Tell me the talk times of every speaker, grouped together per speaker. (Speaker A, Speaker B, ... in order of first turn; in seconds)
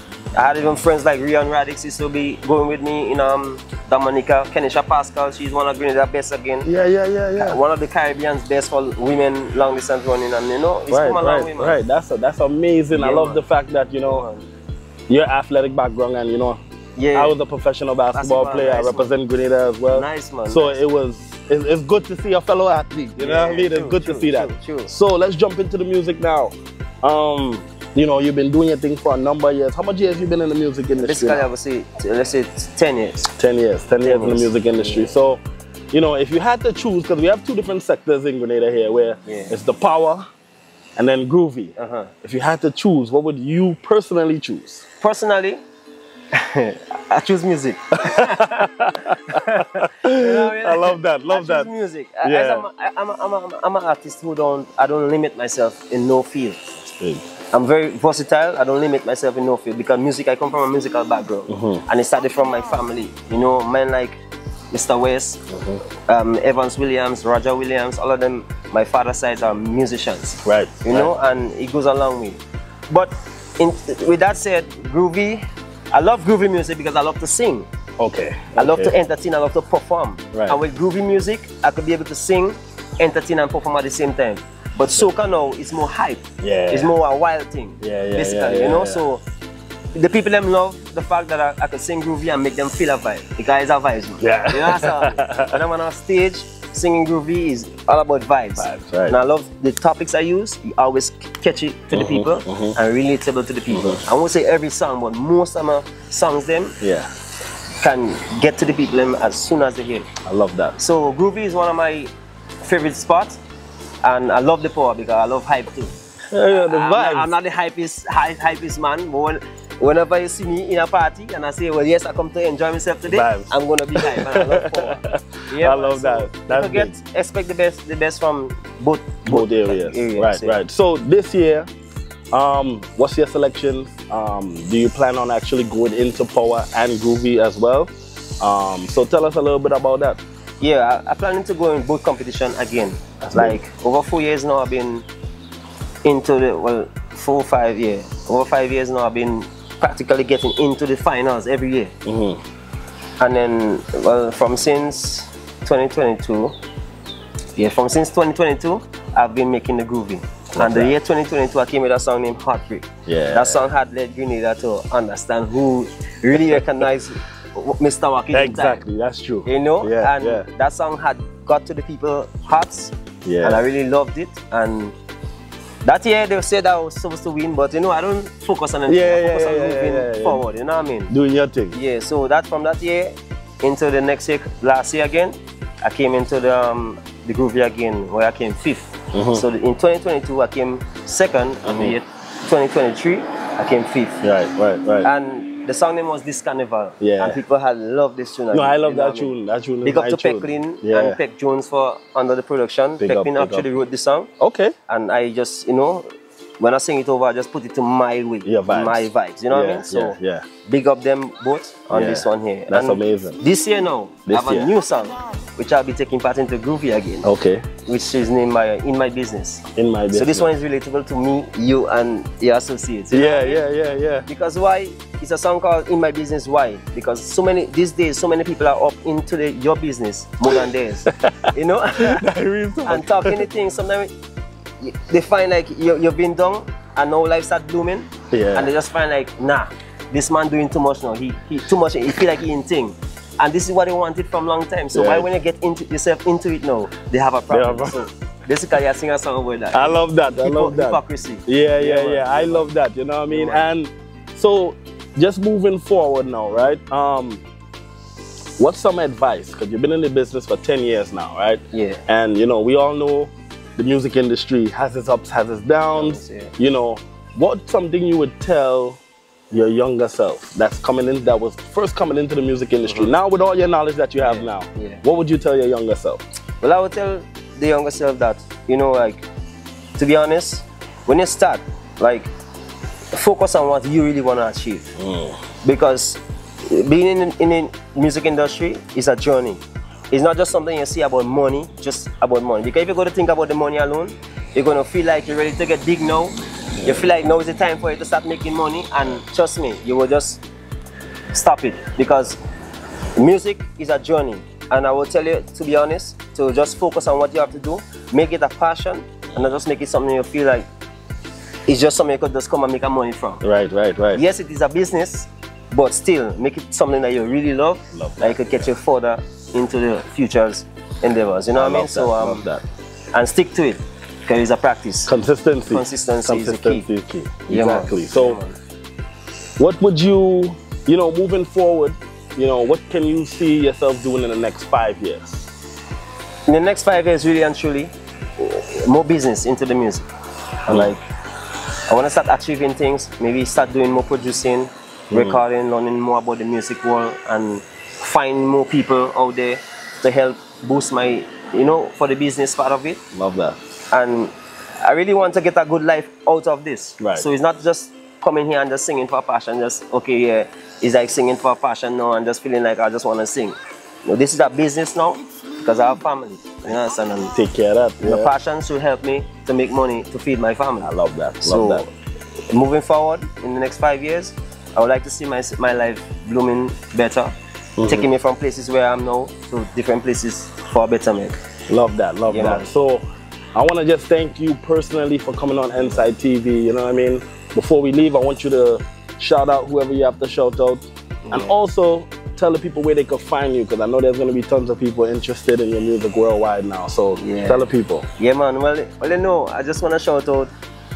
Speaker A: 0.3-6.7, 7.3-11.8, 12.9-13.4, 14.0-14.4, 16.9-17.3, 18.1-19.1, 19.9-20.8, 23.2-24.9, 31.0-33.3, 34.0-35.1, 39.2-39.5, 41.8-42.1, 45.0-45.6, 46.3-56.6, 57.5-64.2, 64.7-65.4, 66.1-77.7, 78.5-89.2, 89.9-106.8, 107.8-110.0, 110.8-112.1, 112.6-113.4, 114.0-115.9, 116.5-130.6, 140.6-145.1, 146.0-151.9, 153.2-156.5, 157.6-168.8, 169.4-174.9, 175.8-181.1, 181.7-194.2, 195.0-204.3, 204.9-206.1, 206.6-217.3, 217.8-223.6, 224.3-232.2, 232.8-234.1, 234.8-252.7, 253.3-253.7, 261.7-262.0, 265.9-266.5, 272.8-273.1, 274.2-275.0, 276.6-279.2, 280.0-282.3, 283.1-284.9, 285.6-300.4, 301.3-302.4, 303.1-310.7, 311.7-313.4, 314.1-322.5, 323.1-325.1, 325.7-326.9, 327.5-328.6, 336.5-340.0, 340.6-341.0, 341.9-353.0, 353.9-367.3, 368.0-371.9, 372.5-377.3, 377.8-381.4, 382.3-382.7, 385.8-386.0, 391.2-391.5, 397.2-400.5
Speaker B: 6.6-7.6, 10.9-14.2, 15.1-16.6, 17.1-31.5, 33.4-40.2, 41.0-44.8, 48.1-51.7, 52.2-52.6, 56.8-57.2, 61.5-61.8, 65.5-65.8, 70.4-71.1, 78.0-79.0, 80.3-80.6, 86.4-86.9, 87.8-89.0, 94.2-95.6, 98.6-99.2, 101.9-102.8, 103.7-104.0, 106.8-107.1, 110.2-110.8, 116.3-117.3, 123.1-126.9, 129.2-131.7, 132.3-140.2, 143.2-143.6, 152.0-152.4, 160.5-160.9, 163.1-163.7, 168.3-170.4, 173.2-173.6, 178.9-180.4, 181.1-181.8, 189.1-189.4, 191.6-192.0, 194.2-195.1, 197.0-197.4, 198.5-201.2, 203.0-203.7, 204.4-204.7, 208.4-210.5, 211.9-213.4, 214.3-214.7, 217.2-217.7, 219.7-220.5, 223.1-224.3, 230.5-233.5, 238.3-238.7, 244.9-245.3, 247.5-248.0, 249.7-257.4, 258.6-269.0, 269.5-276.2, 285.0-285.4, 313.4-314.2, 317.9-318.7, 321.5-322.6, 325.1-328.4, 329.6-335.5, 340.7-340.9, 345.1-345.4, 353.1-353.6, 357.0-357.3, 367.3-368.3, 370.8-371.9, 377.8-378.1, 381.7-383.0, 383.5-398.1